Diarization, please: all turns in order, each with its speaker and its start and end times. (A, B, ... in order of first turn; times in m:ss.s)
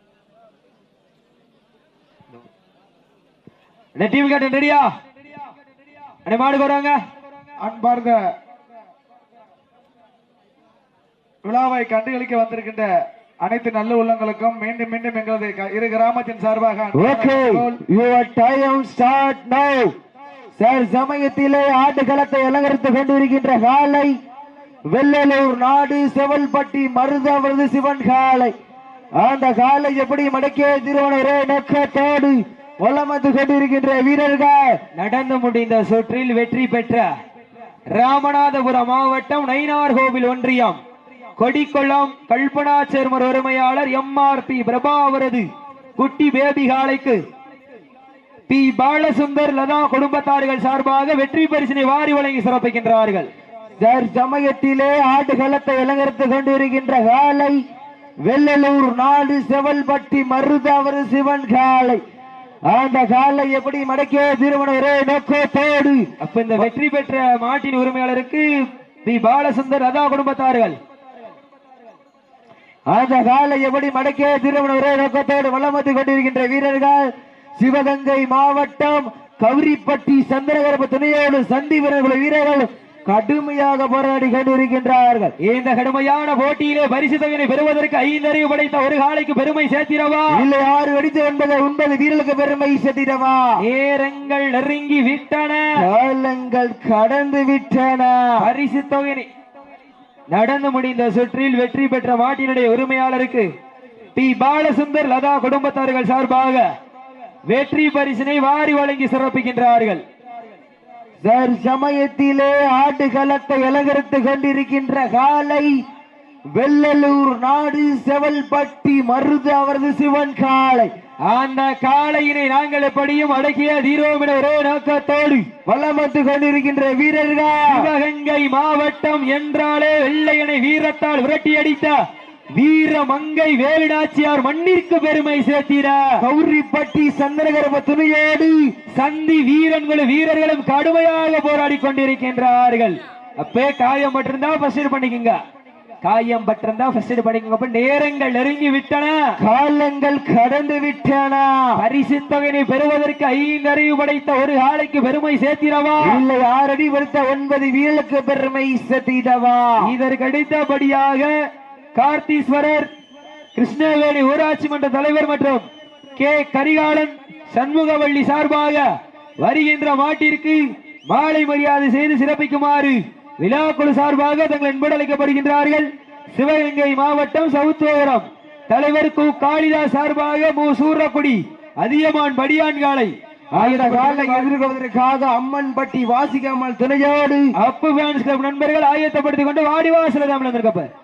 0:04.0-0:04.9 A
0:06.2-0:07.0 A
0:07.6-0:08.3 B
0:11.4-0:17.8 B
0:16.9-0:19.9 C
0:20.6-0:24.2 C
0:24.9-0:28.5 C
0:29.2-0:34.8 C
0:35.0-0:37.1 A
0:37.9-0:40.8 A
0:41.4-0:47.2 A
0:48.5-0:53.3 A
0:53.8-0:57.6 C
0:58.2-1:02.0 C
1:02.7-1:06.7 C
1:06.2-1:10.8 A
1:12.9-1:25.3 C
1:25.4-1:30.4 A
1:30.3-1:33.6 C
1:33.6-1:35.8 A
1:35.8-1:38.5 C
1:38.4-1:39.3 A
1:40.3-1:43.5 A
1:44.2-1:46.7 A
1:47.5-1:50.0 A
1:51.2-1:55.8 C
1:56.5-2:00.9 C
2:01.2-2:05.5 A
2:05.6-2:07.9 C
2:07.7-2:12.0 A
2:12.5-2:16.2 A
2:16.2-2:18.7 C
2:18.9-2:25.4 A
2:26.0-2:29.4 A
2:29.4-2:31.8 C
2:31.8-2:36.2 A
2:36.0-2:39.9 C
2:39.8-2:41.3 A
2:42.0-2:42.9 A
2:43.6-2:45.6 A
2:46.2-2:48.9 A
2:49.4-3:04.5 A
3:03.5-3:07.5 C
3:07.6-3:10.9 A